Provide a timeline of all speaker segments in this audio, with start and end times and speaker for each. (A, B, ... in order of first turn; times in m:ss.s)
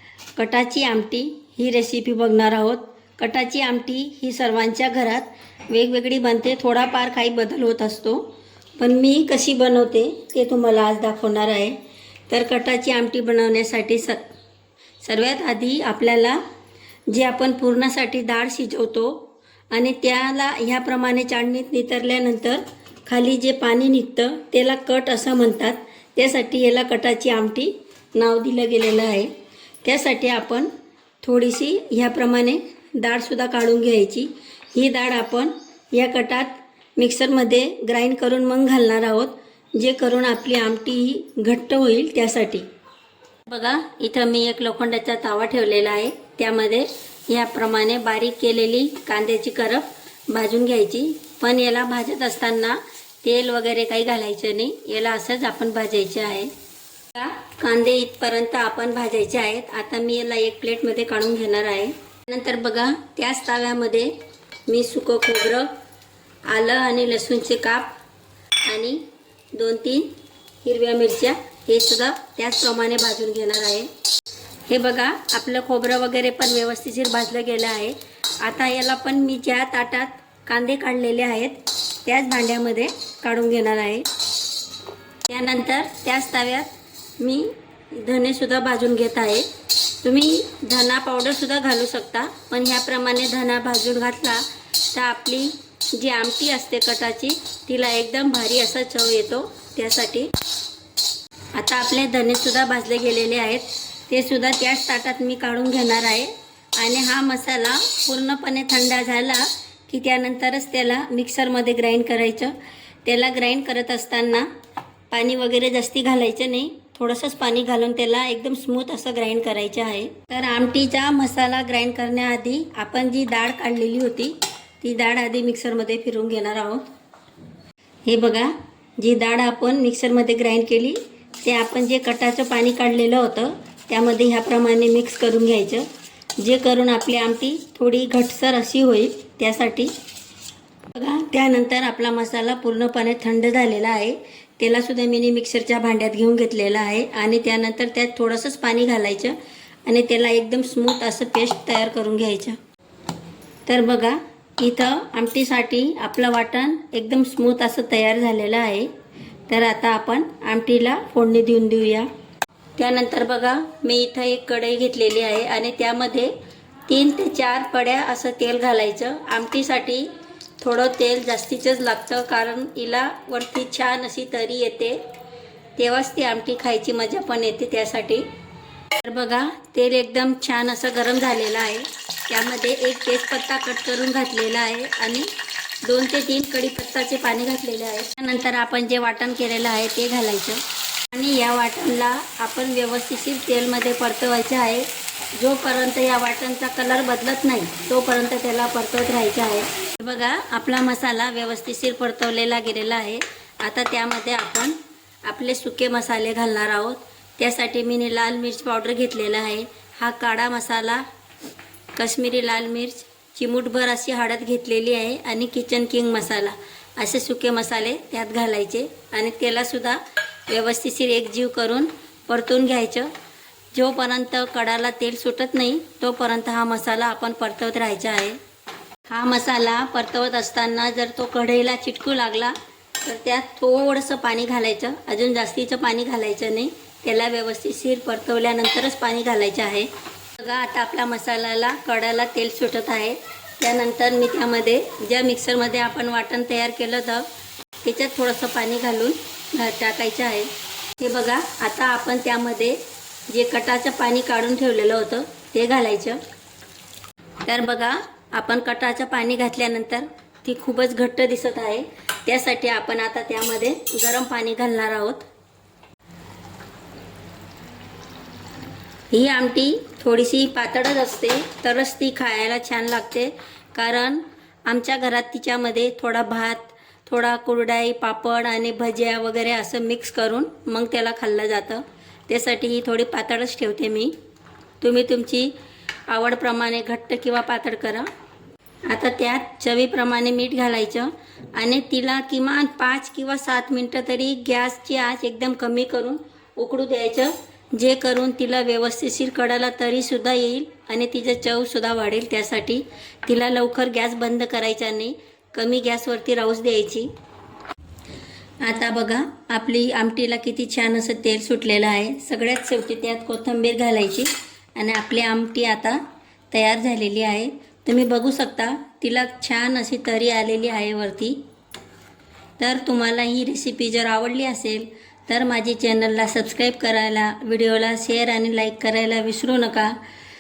0:00.4-0:08.2 A
0:08.8-0:11.8 A
0:12.3-0:14.3 A
0:15.0-0:16.4 A
0:17.1-0:29.3 A
0:29.8-0:30.7 A
0:31.2-0:42.7 A
0:43.5-0:56.5 A
0:57.1-1:04.1 A
1:04.7-1:05.7 A
1:06.5-1:08.0 A
1:08.7-1:09.0 A
1:09.5-1:10.1 A
1:10.6-1:13.9 A
1:14.7-1:24.1 A
1:25.3-1:29.5 A
1:30.0-1:40.3 A
1:41.6-1:52.5 A
1:53.0-1:54.5 A
1:55.1-2:06.9 A
2:08.1-2:15.9 A
2:16.4-2:19.9 A
2:21.0-2:32.6 A
2:33.7-2:38.9 A
2:39.5-2:42.1 A
2:42.8-2:46.3 A
2:46.9-2:50.1 A
2:50.6-2:55.0 A
2:55.8-2:58.2 A
2:59.0-3:05.3 A
3:05.8-3:10.6 A
3:11.1-3:31.0 A
3:32.0-3:43.1 A
3:43.7-3:48.4 A
3:49.1-3:59.9 A
4:00.4-4:07.2 A
4:07.8-4:12.8 A
4:13.3-4:16.2 A
4:17.4-4:25.3 A
4:29.1-4:44.1 A
4:44.8-4:45.5 A
4:46.1-4:48.1 A
4:48.9-5:07.1 A
5:08.6-5:21.4 A
5:22.6-5:30.0 A